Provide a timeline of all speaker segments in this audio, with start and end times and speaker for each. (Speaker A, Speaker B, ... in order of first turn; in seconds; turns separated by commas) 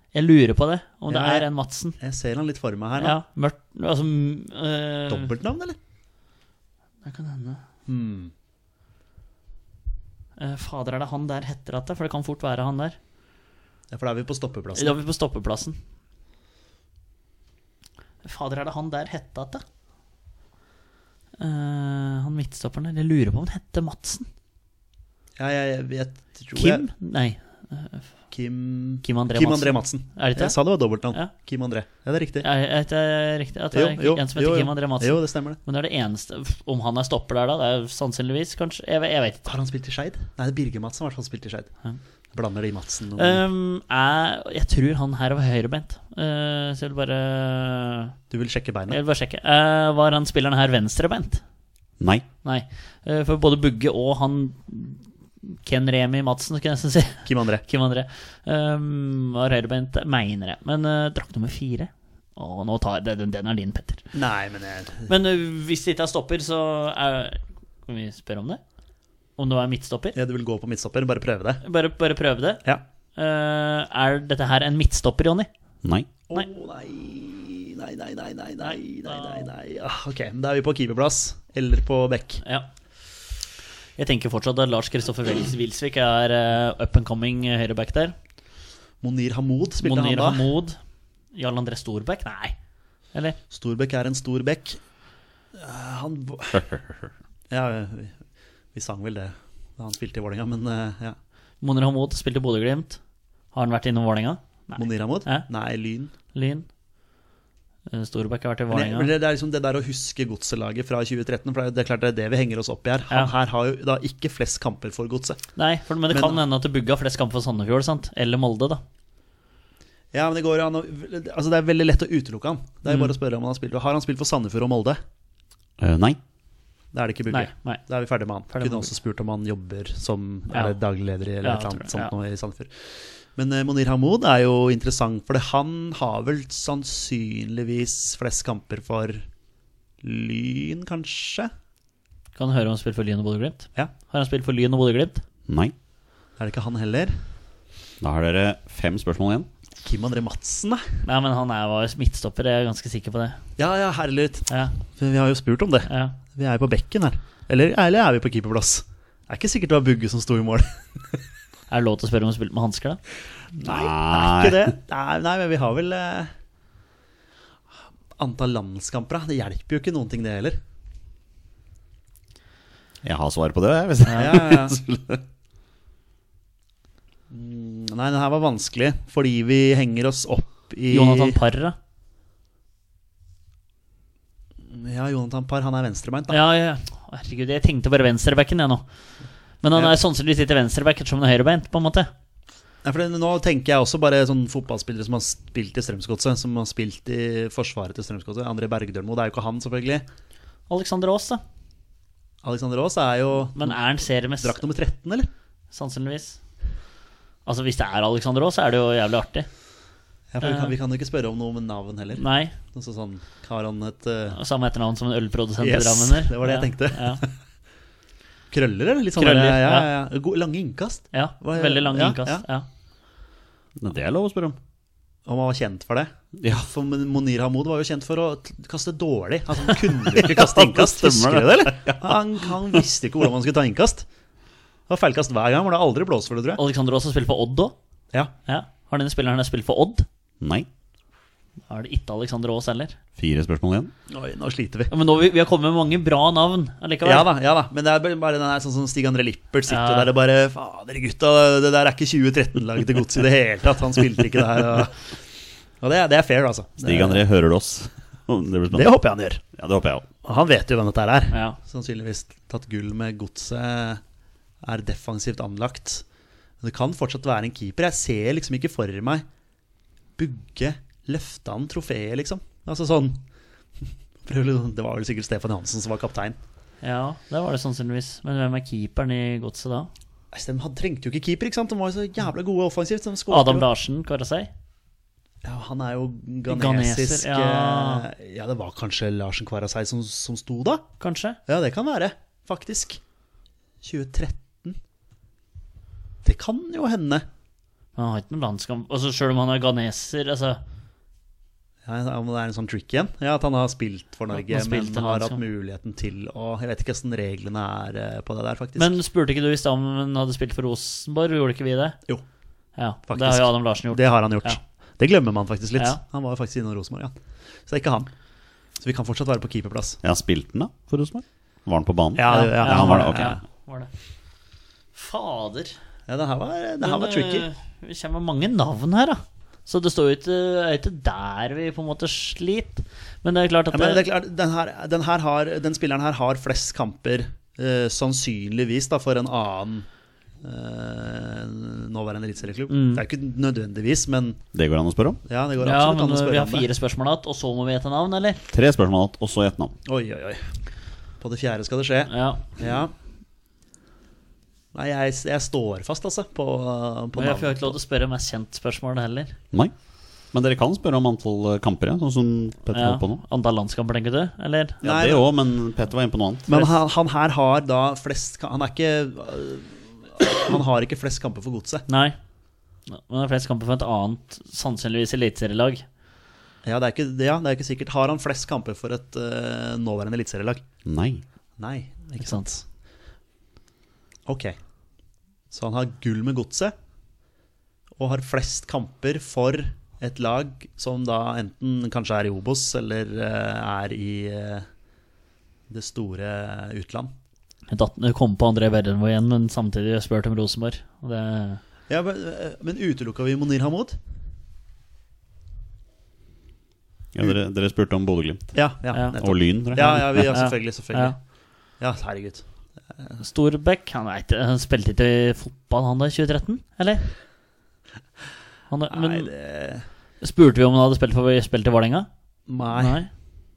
Speaker A: 0.1-2.0, Speaker B: 1.1-1.4, Speaker B: 2.0-3.2, Speaker A: 3.0-5.3, Speaker B: 5.1-5.8, Speaker A: 7.0-7.6, Speaker B: 7.9-8.3, Speaker A: 10.4-13.0, Speaker B: 13.9-14.9, Speaker A: 14.8-15.8, Speaker A: 18.2-19.6, Speaker A: 21.4-24.3, Speaker B: 25.4-26.9, Speaker A: 26.5-28.1, Speaker B: 28.3-32.5, Speaker A: 29.0-30.6, Speaker A: 32.4-39.5, Speaker B: 33.7-35.6, Speaker B: 39.5-41.7, Speaker B: 42.3-43.4, Speaker A: 43.2-48.1, Speaker B: 48.3-49.0, Speaker A: 48.9-51.4, Speaker C: 52.0-52.2, Speaker A: 52.4-64.0, Speaker B: 57.2-57.6, Speaker B: 64.1-65.1, Speaker A: 65.1-68.6, Speaker A: 69.4-70.2, Speaker B: 70.1-71.6, Speaker A: 71.6-72.6, Speaker A: 73.2-75.5, Speaker C: 75.8-76.1, Speaker B: 76.3-82.4, Speaker A: 78.6-79.5, Speaker A: 82.4-82.7, Speaker A: 84.0-88.1, Speaker B: 89.0-90.5, Speaker A: 89.8-90.8, Speaker A: 91.3-92.5, Speaker B: 93.5-94.8, Speaker B: 95.5-96.6, Speaker C: 96.5-97.1, Speaker B: 97.5-98.2, Speaker B: 98.7-101.2, Speaker A: 101.6-103.0, Speaker A: 103.5-105.5, Speaker B: 104.8-106.1, Speaker A: 106.3-106.7, Speaker A: 107.9-109.1, Speaker B: 108.7-115.4, Speaker A: 115.5-118.8, Speaker B: 116.1-116.4, Speaker B: 120.1-125.0, Speaker A: 122.9-123.1, Speaker C: 125.8-126.2, Speaker B: 126.9-139.2, Speaker A: 127.3-127.8, Speaker A: 128.5-128.9, Speaker A: 130.5-130.8, Speaker A: 131.4-132.1, Speaker B: 140.0-141.5, Speaker A: 142.3-145.2, Speaker C: 145.5-145.7, Speaker B: 146.4-147.2, Speaker C: 148.0-149.5, Speaker B: 149.8-151.0, Speaker A: 151.0-153.4, Speaker B: 153.6-161.2, Speaker A: 154.5-154.7, Speaker A: 155.9-156.2, Speaker A: 161.7-163.0, Speaker B: 163.6-166.3, Speaker C: 163.6-164.7, Speaker B: 168.2-170.6, Speaker C: 173.0-175.2, Speaker B: 174.1-174.8, Speaker B: 177.3-181.4, Speaker A: 180.9-181.8, Speaker B: 184.7-186.4, Speaker A: 186.3-188.8, Speaker A: 189.6-192.1, Speaker B: 192.8-200.0, Speaker A: 200.7-201.4, Speaker B: 202.4-203.8, Speaker A: 203.5-204.6, Speaker B: 204.4-205.3, Speaker A: 205.7-206.4, Speaker A: 207.4-209.5, Speaker B: 210.3-214.4, Speaker A: 210.4-210.7, Speaker A: 212.2-212.5, Speaker A: 214.3-217.2, Speaker B: 215.6-217.3, Speaker B: 218.5-222.4, Speaker A: 219.2-219.9, Speaker A: 221.1-222.7, Speaker C: 223.8-224.6, Speaker B: 225.2-234.1, Speaker C: 226.4-226.7, Speaker C: 230.1-232.2, Speaker B: 234.9-236.6, Speaker A: 236.6-237.8, Speaker A: 238.4-240.1, Speaker C: 240.4-240.7, Speaker A: 241.7-243.0, Speaker C: 243.2-243.9, Speaker B: 244.1-244.9, Speaker A: 244.9-247.3, Speaker B: 247.0-255.0, Speaker A: 249.7-250.1, Speaker B: 255.8-257.2, Speaker C: 256.8-258.9, Speaker B: 258.7-259.4, Speaker C: 259.5-260.1, Speaker B: 260.2-264.0, Speaker A: 261.3-261.6, Speaker B: 264.6-266.0, Speaker B: 266.6-269.2, Speaker B: 270.2-273.2, Speaker B: 274.2-276.4, Speaker A: 276.8-279.9, Speaker B: 280.3-283.6, Speaker A: 283.3-284.5, Speaker B: 285.4-290.8, Speaker A: 286.5-288.1, Speaker A: 291.0-291.4, Speaker B: 291.5-293.0, Speaker B: 293.8-294.8, Speaker B: 296.2-297.2, Speaker A: 297.9-300.6, Speaker B: 301.8-308.9, Speaker A: 304.3-305.4, Speaker A: 308.8-312.0, Speaker A: 312.8-314.6, Speaker B: 313.1-317.1, Speaker B: 317.7-318.1, Speaker B: 318.8-320.0, Speaker C: 320.0-323.3, Speaker B: 322.1-323.4, Speaker A: 322.3-323.9, Speaker A: 324.9-325.8, Speaker B: 326.1-327.5, Speaker A: 326.8-334.1, Speaker B: 333.7-339.9, Speaker B: 340.4-344.4, Speaker A: 342.7-343.0, Speaker C: 344.5-345.2, Speaker B: 345.2-346.7, Speaker A: 345.6-348.4, Speaker C: 348.5-349.7, Speaker B: 349.8-350.5, Speaker B: 351.2-352.9, Speaker A: 352.1-352.5, Speaker B: 354.7-357.8, Speaker A: 357.1-359.4, Speaker C: 360.3-363.2, Speaker A: 362.7-364.8, Speaker B: 364.8-365.2, Speaker C: 364.8-366.5, Speaker B: 366.5-371.9, Speaker A: 371.9-372.2, Speaker A: 372.9-375.8, Speaker B: 376.6-380.6, Speaker C: 380.9-381.2, Speaker B: 381.6-382.6, Speaker A: 382.2-382.5, Speaker B: 384.3-384.5, Speaker B: 385.5-386.7, Speaker B: 388.0-394.7, Speaker B: 395.7-397.1, Speaker A: 397.7-401.6, Speaker B: 401.9-404.0, Speaker C: 407.1-408.5, Speaker B: 408.5-411.1, Speaker A: 408.9-409.2, Speaker C: 409.2-410.4, Speaker A: 409.8-411.1, Speaker B: 411.8-412.4, Speaker A: 413.2-417.1, Speaker A: 418.7-419.3, Speaker B: 418.9-419.8, Speaker A: 420.2-422.1, Speaker B: 422.5-423.0, Speaker A: 422.7-423.1